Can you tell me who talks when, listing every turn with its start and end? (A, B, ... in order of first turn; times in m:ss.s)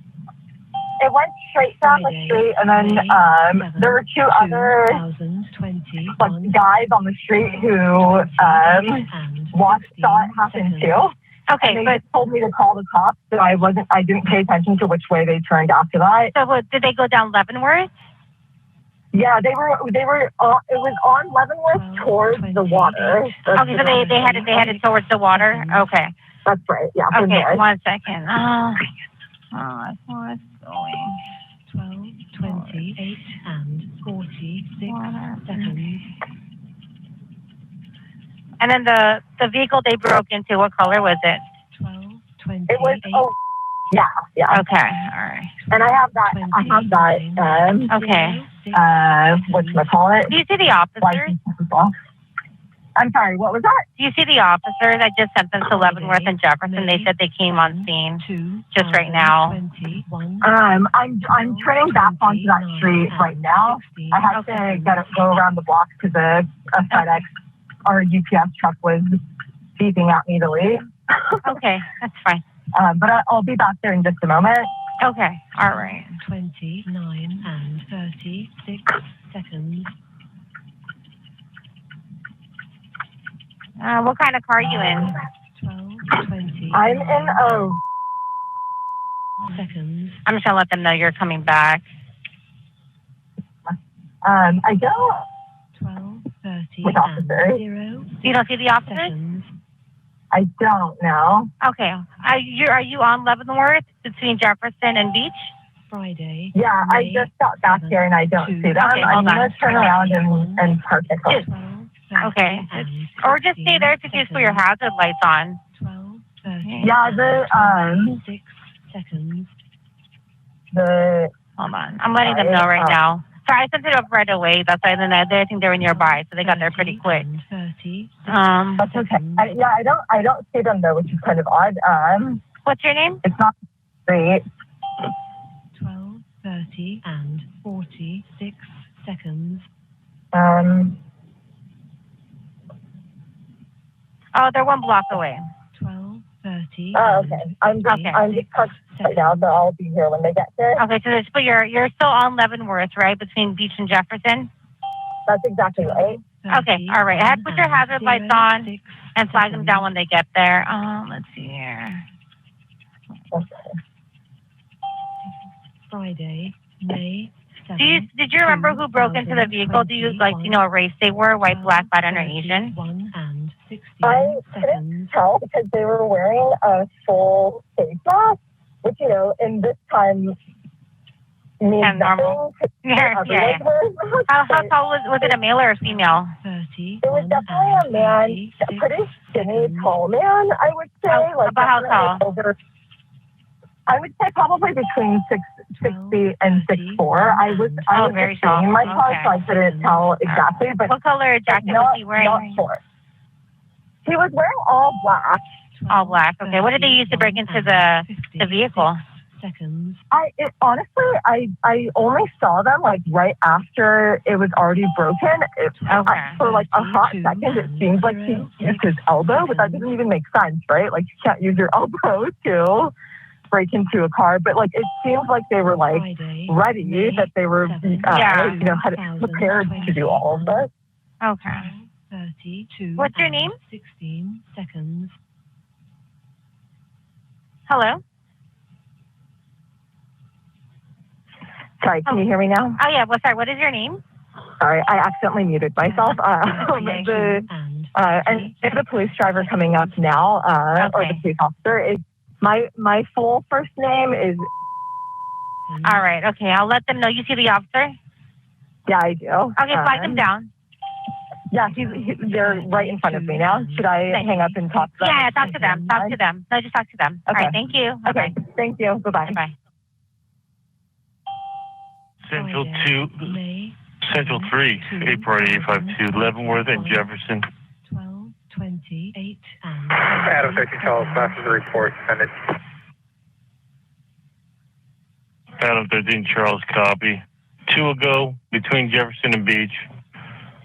0:01.0-0:05.0 A
0:01.8-0:06.6 B
0:06.2-0:16.3 A
0:08.0-0:11.1 B
0:11.5-0:12.0 C
0:16.3-0:17.9 C
0:19.1-0:24.4 A
0:21.7-0:25.9 B
0:23.6-0:26.1 C
0:26.4-0:27.6 A
0:27.1-0:28.9 C
0:29.5-0:31.2 C
0:31.7-0:36.1 B
0:32.4-0:32.9 C
0:34.9-0:35.8 C
0:38.6-0:41.4 C
0:41.7-0:43.3 B
0:42.7-0:43.3 A
0:43.9-0:44.6 A
0:44.5-0:45.5 C
0:45.6-0:50.0 B
0:45.7-0:47.9 A
0:47.9-0:48.4 C
0:48.7-0:50.4 A
0:50.3-0:51.4 C
0:51.0-0:51.9 A
0:53.0-0:53.8 A
0:54.0-0:59.6 C
0:55.7-1:00.5 B
1:00.4-1:07.3 A
1:01.3-1:05.1 B
1:04.3-1:04.7 C
1:06.9-1:07.2 C
1:07.9-1:09.2 A
1:09.8-1:11.5 A
1:11.4-1:12.4 C
1:12.8-1:14.7 A
1:15.0-1:16.2 C
1:15.7-1:20.0 B
1:23.8-1:25.2 C
1:25.4-1:27.8 B
1:26.7-1:27.8 A
1:29.5-1:30.2 B
1:30.2-1:31.8 C
1:34.2-1:35.2 A
1:35.7-1:38.2 B
1:36.8-1:37.6 A
1:38.2-1:39.1 C
1:38.8-1:39.5 B
1:40.3-1:41.5 A
1:41.6-1:45.5 C
1:45.9-1:50.8 B
1:46.5-1:51.4 A
1:48.8-1:50.0 C
1:51.3-1:54.7 B
1:52.2-1:55.6 C
1:55.7-1:59.5 B
1:56.6-1:56.9 C
1:56.8-1:58.2 A
2:00.7-2:01.3 A
2:01.6-2:07.3 C
2:02.2-2:03.0 A
2:05.9-2:09.5 B
2:08.3-2:08.9 C
2:08.8-2:12.4 A
2:12.7-2:13.2 C
2:13.2-2:13.5 A
2:14.1-2:14.4 A
2:15.7-2:19.7 B
2:20.3-2:21.0 A
2:24.3-2:25.4 C
2:25.7-2:29.6 B
2:26.9-2:30.8 A
2:27.9-2:28.2 C
2:30.8-2:34.5 C
2:35.3-2:36.2 A
2:35.7-2:39.9 B
2:36.5-2:42.0 C
2:43.3-2:43.7 A
2:45.9-2:50.6 B
2:47.8-2:52.7 C
2:51.4-2:55.1 B
2:54.0-3:00.4 A
3:01.6-3:05.4 A
3:01.8-3:03.6 C
3:04.3-3:06.3 C
3:05.8-3:10.0 B
3:07.0-3:12.6 A
3:11.1-3:12.2 C
3:13.9-3:20.9 A
3:15.8-3:18.1 B
3:17.9-3:19.3 C
3:18.8-3:20.1 B
3:20.3-3:22.6 C
3:21.5-3:22.8 A
3:24.0-3:25.4 A
3:25.7-3:30.0 B
3:25.9-3:29.0 C
3:30.1-3:42.9 A
3:35.7-3:39.9 B
3:35.9-3:36.4 C
3:43.5-3:50.7 A
3:45.9-3:50.7 B
3:48.1-3:48.6 C
3:51.2-3:51.7 C
3:51.4-3:55.2 B
3:53.0-3:53.6 C
3:57.7-3:58.0 C
4:01.8-4:02.8 A
4:02.1-4:04.0 C
4:04.6-4:14.5 A
4:05.8-4:06.2 C
4:06.5-4:08.6 B
4:09.3-4:10.0 B
4:10.8-4:11.2 C
4:15.7-4:16.1 B
4:15.8-4:18.0 C
4:18.9-4:20.3 A
4:19.6-4:20.5 C
4:21.5-4:25.3 A
4:21.7-4:26.0 B
4:25.0-4:28.4 C
4:27.3-4:29.4 A
4:29.3-4:29.5 C
4:32.3-4:33.4 D
4:32.3-4:37.1 B
4:34.0-4:37.5 D
4:37.8-4:41.6 B
4:40.1-4:42.3 E
4:45.6-4:49.8 D